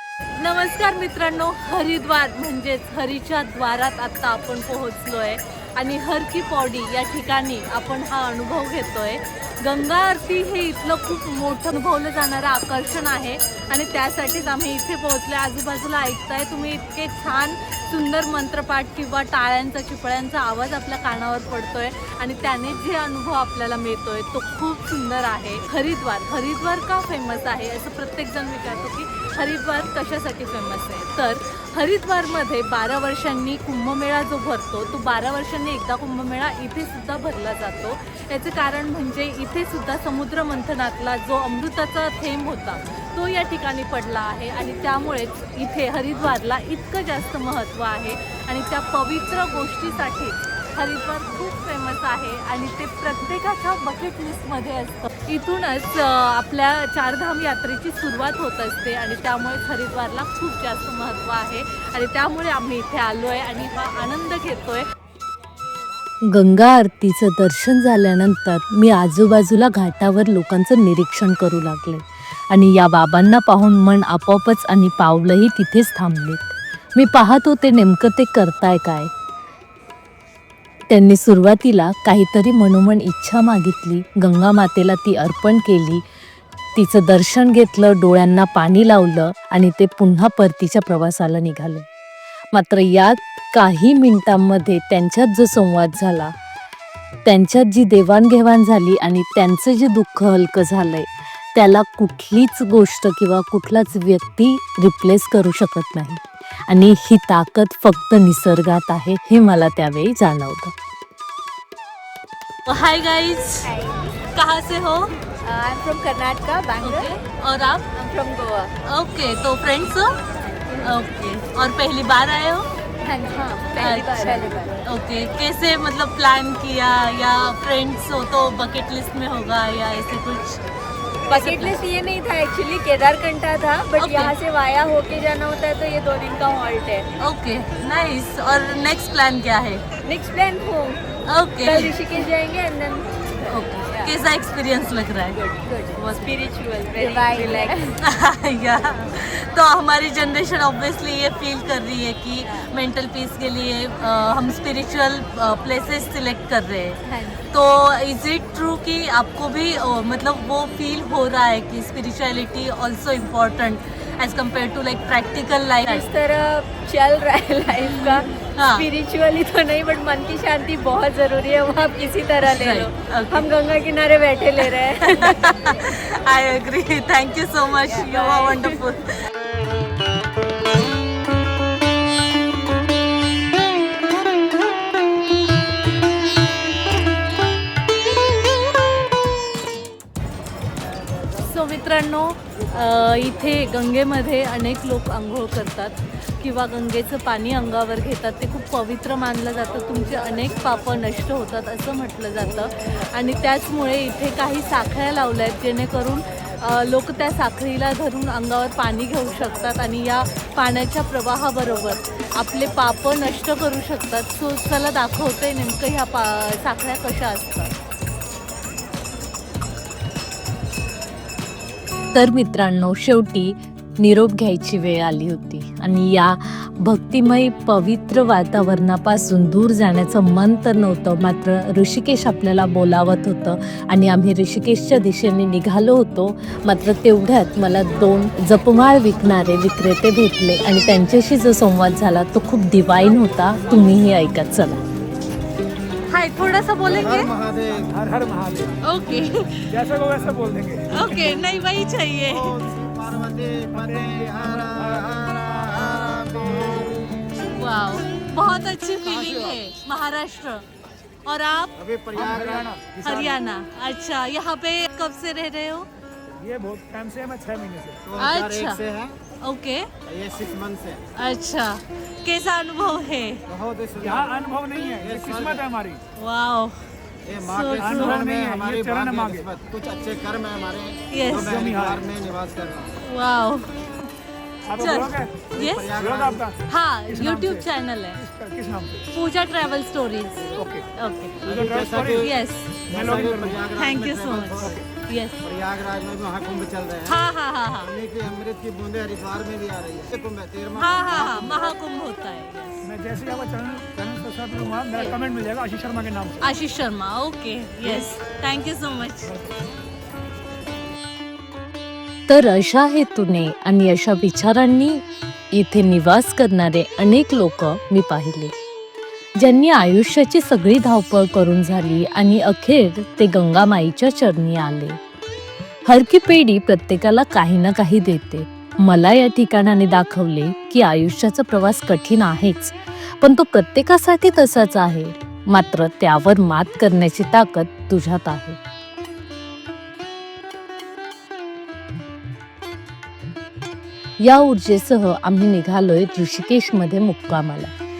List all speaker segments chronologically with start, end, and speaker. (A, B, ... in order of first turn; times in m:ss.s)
0:00.4-1:04.9 A
1:06.3-1:19.1 B
1:20.9-1:26.0 B
1:26.7-1:31.8 B
1:32.5-1:36.3 B
1:37.2-1:50.7 B
1:52.7-1:53.7 A
1:53.7-1:54.2 C
1:54.3-1:55.1 A
1:55.4-1:57.1 C
1:56.8-1:57.9 A
1:57.9-1:58.7 C
1:58.8-2:00.1 A
2:00.5-2:00.9 C
2:00.8-2:02.7 A
2:03.0-2:04.8 C
2:03.8-2:10.6 A
2:11.3-2:11.8 A
2:11.3-2:17.1 C
2:14.0-2:14.3 A
2:17.2-2:19.8 A
2:20.0-2:21.0 C
2:21.3-2:22.3 A
2:21.6-2:24.1 C
2:23.5-2:26.3 A
2:25.6-2:27.9 C
2:27.0-2:46.0 A
2:37.1-2:37.4 C
2:45.8-2:48.2 C
2:47.8-2:48.9 A
2:48.8-2:55.5 C
2:52.4-2:53.5 A
2:55.0-2:59.0 A
2:57.9-2:58.8 C
3:11.4-3:37.7 A
3:42.1-4:04.8 B
4:06.1-4:07.3 A
4:06.9-4:07.9 D
4:07.8-4:08.8 E
4:08.8-4:09.6 A
4:09.7-4:11.2 E
4:10.9-4:12.6 A
4:12.2-4:17.4 D
4:13.7-4:15.7 E
4:17.5-4:20.6 A
4:19.0-4:19.6 D
4:21.2-4:21.7 A
4:21.8-4:22.7 D
4:22.1-4:23.4 E
4:23.0-4:25.9 A
4:26.4-4:28.0 E
4:28.0-4:29.2 D
4:28.2-4:28.8 A
4:29.4-4:29.9 A
4:30.0-4:31.0 D
4:31.2-4:33.4 A
4:33.5-4:35.6 D
4:34.0-4:36.0 E
4:36.2-4:36.8 A
4:37.2-4:43.0 D
4:37.4-4:38.2 A
4:37.8-4:39.5 E
4:41.1-4:41.6 A
4:41.3-4:42.1 E
4:43.0-4:43.7 A
4:44.7-4:47.6 E
4:44.8-4:45.9 A
4:45.5-4:46.5 D
4:46.7-4:48.2 A
4:48.2-4:49.1 E
4:49.1-4:51.4 A
4:50.6-4:50.8 E
4:51.4-4:52.3 D
4:51.4-4:52.3 E
4:52.1-4:52.8 A
4:52.9-4:53.7 E
4:52.9-4:54.8 D
4:53.8-4:55.4 A
4:55.4-4:57.2 D
4:57.0-4:57.9 A
4:57.8-5:01.7 D
5:00.7-5:02.8 A
5:02.8-5:06.4 E
5:06.4-5:09.3 A
5:09.2-5:09.6 E
5:12.3-5:18.5 B
5:19.4-5:25.0 B
5:25.9-5:38.6 B
5:44.2-5:47.7 B